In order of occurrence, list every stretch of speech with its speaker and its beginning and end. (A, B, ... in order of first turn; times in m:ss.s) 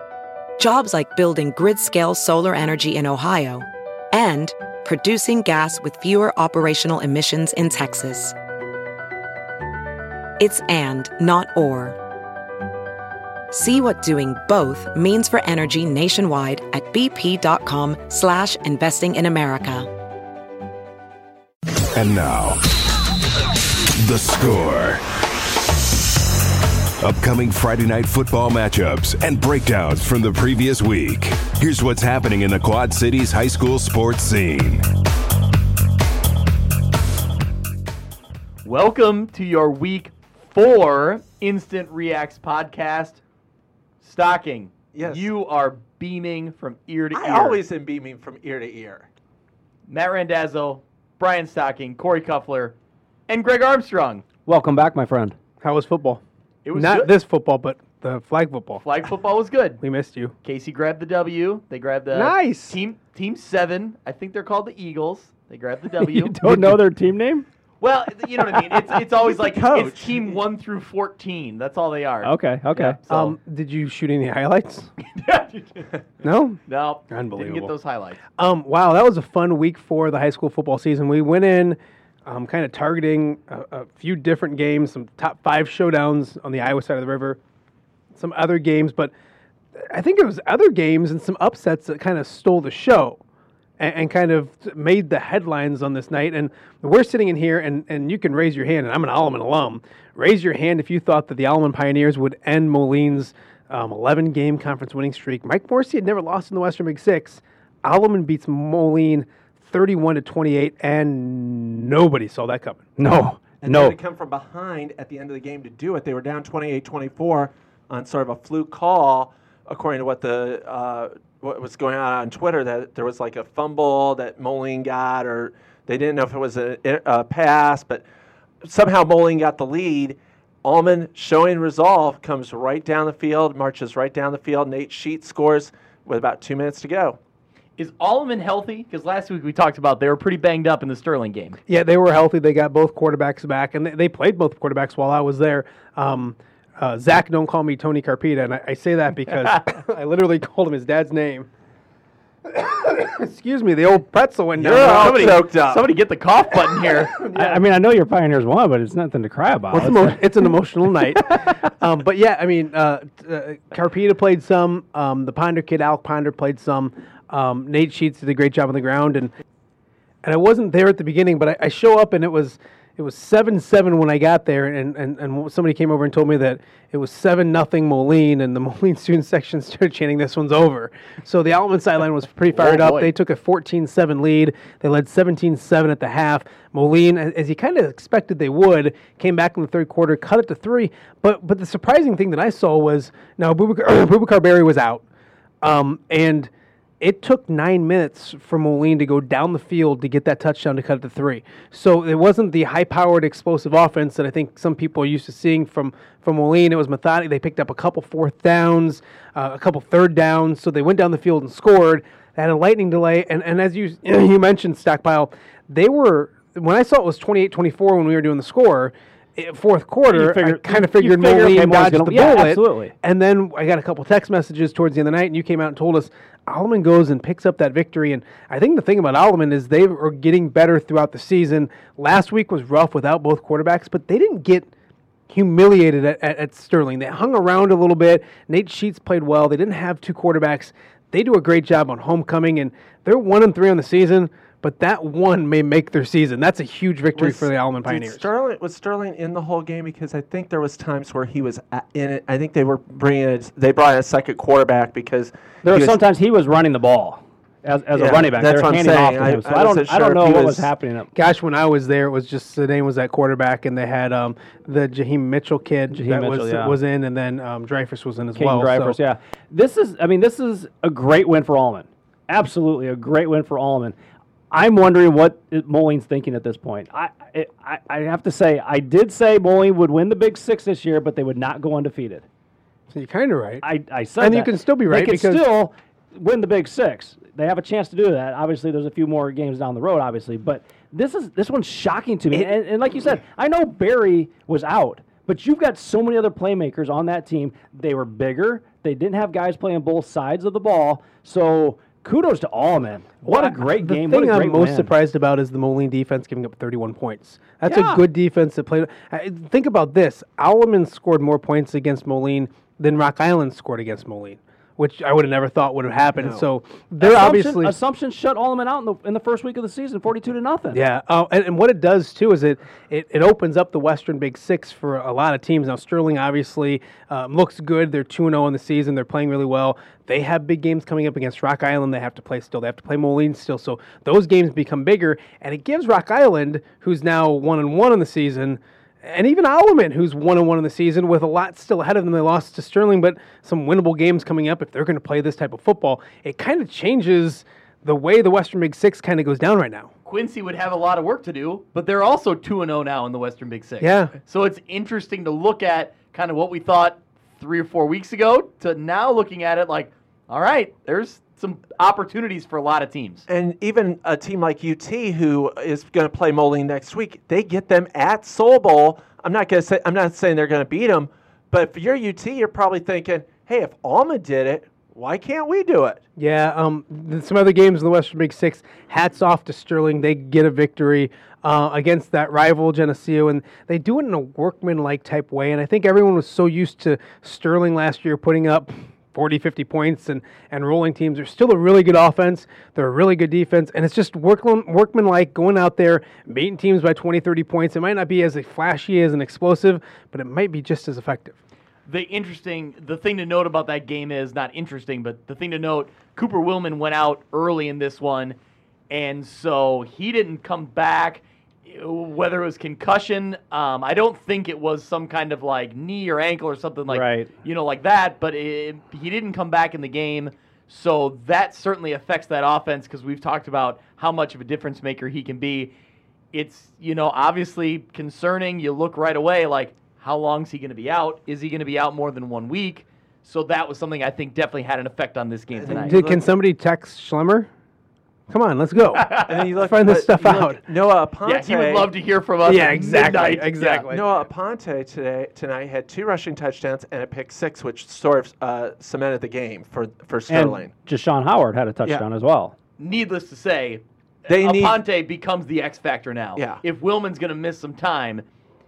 0:00.6-0:08.3 A
0:10.4-0:12.0 A
0:13.5-0:19.9 A
0:21.9-0:22.6 B
0:24.0-0:25.0 B
0:27.0-0:34.8 B
0:38.6-0:43.2 C
0:44.0-0:47.6 C
0:44.9-0:45.3 D
0:47.1-0:49.0 D
0:49.9-0:52.8 C
0:53.3-0:54.2 C
0:54.4-0:55.4 E
0:55.6-0:56.2 F
0:56.6-0:57.1 C
0:56.7-0:58.8 F
0:58.8-0:59.8 C
0:59.8-1:00.3 F
1:00.4-1:06.3 C
1:02.1-1:02.8 F
1:06.0-1:07.4 E
1:06.4-1:06.8 F
1:07.8-1:13.3 C
1:09.2-1:10.4 D
1:12.2-1:13.0 E
1:13.1-1:14.9 F
1:15.1-1:16.0 C
1:16.2-1:16.6 F
1:16.7-1:18.2 C
1:17.1-1:17.7 F
1:18.4-1:27.4 F
1:28.1-1:29.1 F
1:29.8-1:33.2 F
1:33.8-1:52.8 F
1:53.0-1:54.0 E
1:53.6-2:08.0 D
2:08.6-2:17.2 D
2:17.8-2:21.6 C
2:21.7-2:31.5 F
2:32.4-2:35.4 F
2:34.6-2:37.2 C
2:34.6-2:35.8 D
2:37.2-2:37.6 F
2:37.3-2:40.5 E
2:39.7-2:49.3 F
2:50.2-3:15.0 F
3:02.5-3:03.1 C
3:15.6-3:54.7 F
3:40.1-3:42.9 E
3:55.3-4:08.3 F
4:07.2-4:16.0 D
4:15.6-4:21.1 E
4:17.9-4:20.7 D
4:21.1-4:29.0 F
4:25.9-4:26.8 E
4:28.4-4:34.0 E
4:34.5-4:42.2 E
4:42.9-4:43.6 F
4:43.6-5:04.9 E
4:44.2-4:45.4 F
5:03.2-5:17.7 F
5:07.6-5:08.0 E
5:16.2-5:16.4 D
5:17.0-5:20.8 E
5:20.7-5:49.9 F
5:50.0-6:03.2 C
5:53.8-5:54.1 F
6:03.3-6:16.0 D
6:16.2-6:41.4 F
6:41.9-6:48.4 C
6:48.9-7:05.7 C
6:56.9-6:57.3 E
7:06.3-7:16.0 C
7:15.5-7:16.2 D
7:15.7-7:17.5 F
7:18.3-7:20.6 F
7:18.9-7:19.5 C
7:19.2-7:21.9 D
7:21.2-7:23.9 C
7:22.4-7:24.1 F
7:23.9-7:30.7 D
7:30.3-7:32.5 E
7:32.8-7:38.2 C
7:34.3-7:34.8 D
7:36.4-7:36.6 D